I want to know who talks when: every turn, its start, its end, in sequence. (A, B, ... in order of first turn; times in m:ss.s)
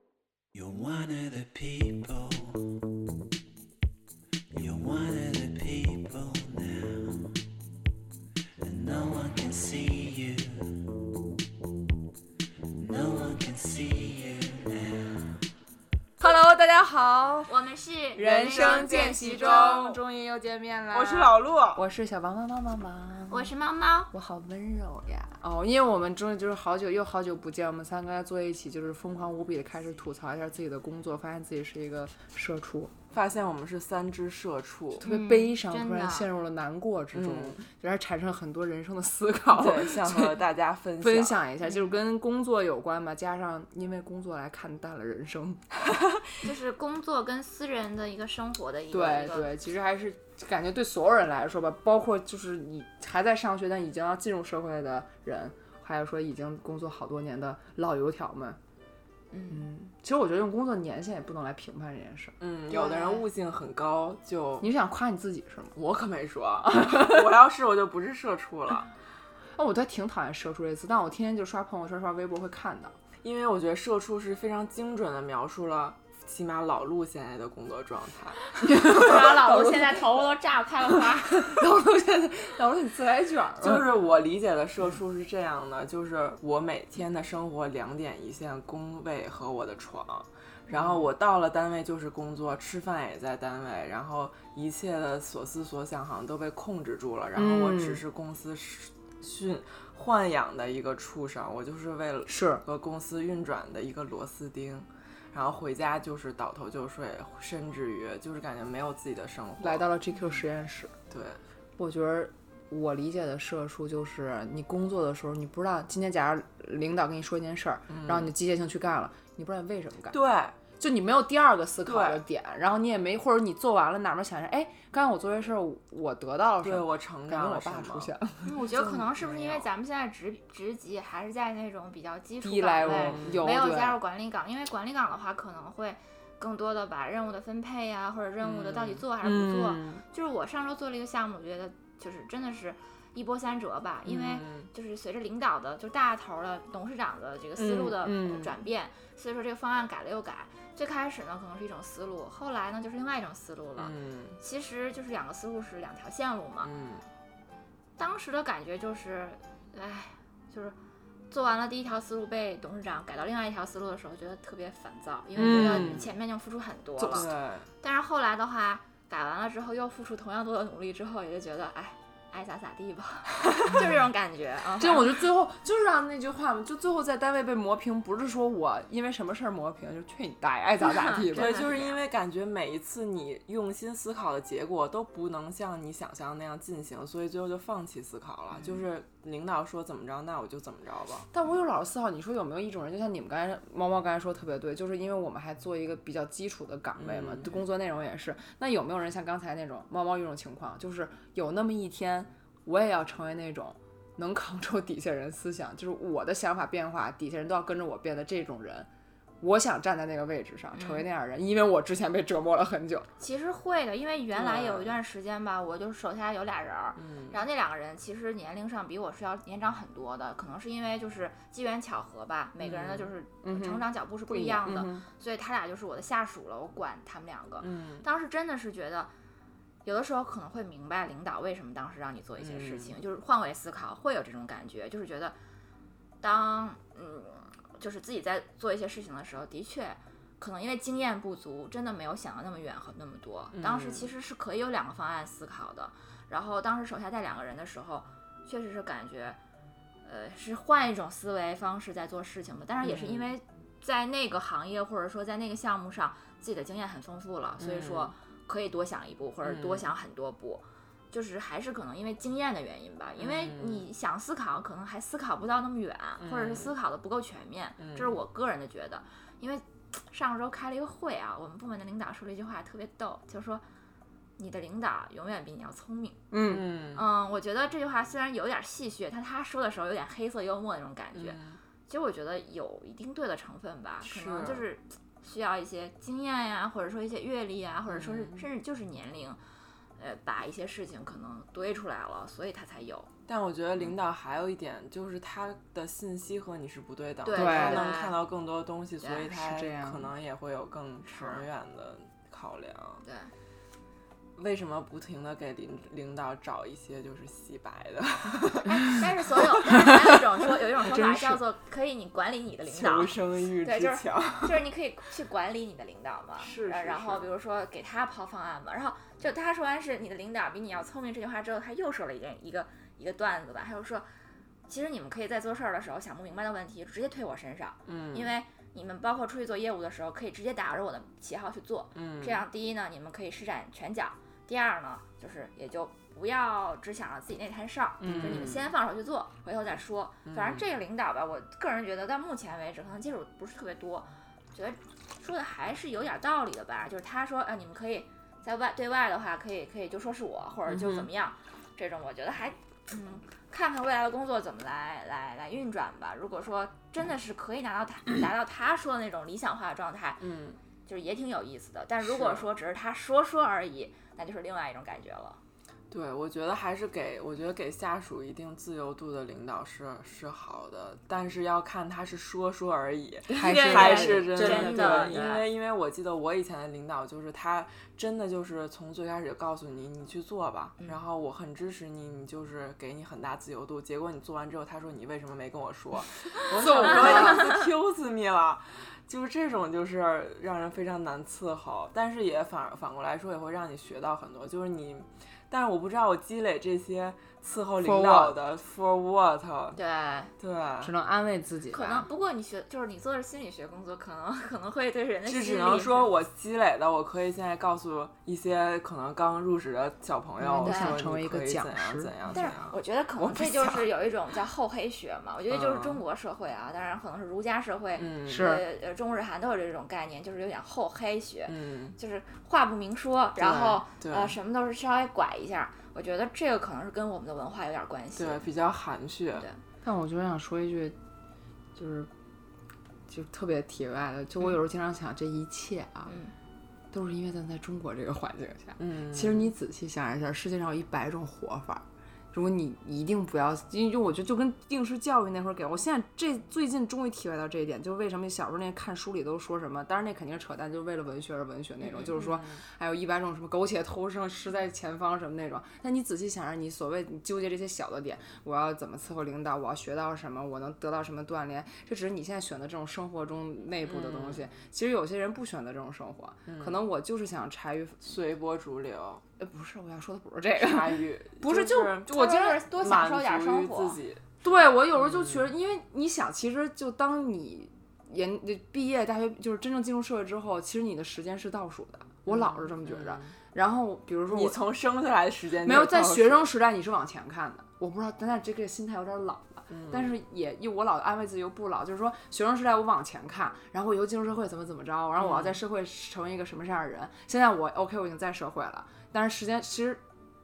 0:00.5-0:02.8 A
0:04.5-0:07.4 A
0:08.6-0:11.0 A
0:12.7-0:15.4 A
0:16.2-0:17.5 B
0:17.5-0:19.6 C
0:18.1-0:23.5 B
0:18.2-0:20.0 D
0:20.9-0:21.8 D
0:23.3-0:24.1 C
0:24.1-0:32.9 B
0:33.1-0:35.1 D
0:35.0-0:40.4 B
0:35.0-0:36.3 C
0:37.1-0:37.6 D
0:39.5-0:41.4 D
0:41.0-0:45.6 B
0:46.4-0:49.5 C
0:48.9-0:58.6 B
0:59.3-0:59.6 C
0:59.5-1:02.3 B
1:02.4-1:04.7 D
1:02.7-1:03.2 C
1:04.6-1:05.8 B
1:05.8-1:08.9 D
1:06.7-1:07.2 B
1:09.5-1:12.9 B
1:13.2-1:18.6 D
1:18.6-1:20.0 B
1:18.9-1:21.5 C
1:21.4-1:24.0 B
1:23.6-1:49.9 D
1:30.7-1:31.0 B
1:37.3-1:38.0 B
1:42.3-1:42.6 B
1:49.6-1:50.9 B
1:51.1-1:51.4 D
1:51.8-2:00.2 B
1:57.9-1:58.3 D
2:00.1-2:00.5 D
2:00.8-2:08.5 B
2:01.8-2:02.2 D
2:06.6-2:09.7 D
2:08.4-2:36.7 C
2:12.4-2:14.0 B
2:12.8-2:13.5 D
2:18.4-2:20.0 D
2:24.0-2:24.7 D
2:27.6-2:28.5 D
2:33.8-2:34.4 D
2:36.6-2:37.0 D
2:38.0-2:40.7 C
2:41.3-2:55.1 C
2:45.4-2:46.0 B
2:45.4-2:46.1 D
2:47.0-2:47.3 B
2:47.1-2:47.7 D
2:54.8-3:01.7 B
3:00.9-3:02.0 C
3:01.3-3:11.3 D
3:11.3-3:28.9 B
3:17.0-3:17.5 D
3:29.4-3:33.1 B
3:30.7-3:31.0 C
3:33.2-3:49.1 C
3:34.3-3:35.0 D
3:37.0-3:37.4 D
3:42.6-3:43.1 D
3:43.4-3:45.0 B
3:47.6-3:48.0 D
3:49.8-3:55.4 C
3:52.4-3:52.9 D
3:56.2-4:09.4 C
4:03.5-4:04.1 D
4:10.0-4:33.6 C
4:12.8-4:13.3 D
4:17.6-4:18.1 D
4:19.4-4:19.9 D
4:23.2-4:23.8 D
4:26.2-4:26.7 D
4:27.8-4:28.1 D
4:34.4-4:36.2 C
4:36.3-4:36.6 B
4:36.4-4:37.0 D
4:36.9-4:49.4 C
4:41.1-4:41.6 D
4:44.0-4:44.6 D
4:47.9-4:48.4 D
4:50.0-4:53.1 C
4:53.3-5:03.0 D
4:57.2-4:58.2 C
4:57.3-4:57.9 B
4:59.0-4:59.3 C
4:59.3-5:00.1 B
5:01.1-5:01.4 C
5:03.0-5:03.3 C
5:04.4-5:10.2 D
5:08.7-5:24.0 C
5:10.8-5:11.4 B
5:12.7-5:14.6 D
5:16.4-5:17.3 D
5:24.7-6:00.2 C
5:27.8-5:28.3 D
5:31.9-5:32.4 D
5:38.0-5:38.6 B
5:38.0-5:38.6 D
5:40.2-5:40.6 D
5:50.7-5:51.0 D
6:00.2-6:00.6 D
6:00.8-6:05.4 C
6:02.0-6:02.4 D
6:05.9-6:39.8 D
6:13.3-6:15.5 C
6:13.3-6:15.4 B
6:26.6-6:27.6 B
6:26.8-6:27.4 C
6:37.8-6:38.4 B
6:39.7-6:40.3 C
6:40.4-6:40.9 D
6:40.8-6:42.0 B
6:41.7-6:46.1 C
6:45.2-6:52.8 D
6:50.4-6:52.6 B
6:50.6-6:51.0 C
6:52.3-7:08.5 C
6:53.4-6:53.7 D
6:55.5-6:56.0 D
6:58.0-6:58.6 D
6:58.2-6:58.6 B
7:01.5-7:02.0 D
7:03.4-7:04.4 D
7:08.2-7:09.5 D
7:09.3-7:09.6 C
7:09.8-7:11.0 B
7:11.7-7:12.1 B
7:13.1-7:16.2 B
7:16.1-7:16.3 C
7:16.9-7:48.1 B
7:18.8-7:19.5 D
7:32.1-7:32.6 D
7:43.8-7:44.5 D
7:46.4-7:46.8 D
7:48.0-7:49.2 D
7:49.4-7:52.6 B
7:50.6-7:54.3 D
7:52.1-7:54.0 C
7:54.4-8:04.6 B
7:55.0-7:55.4 D
8:02.2-8:03.3 D
8:04.3-8:06.5 D
8:05.6-8:20.0 B
8:09.7-8:10.1 D
8:15.2-8:15.6 D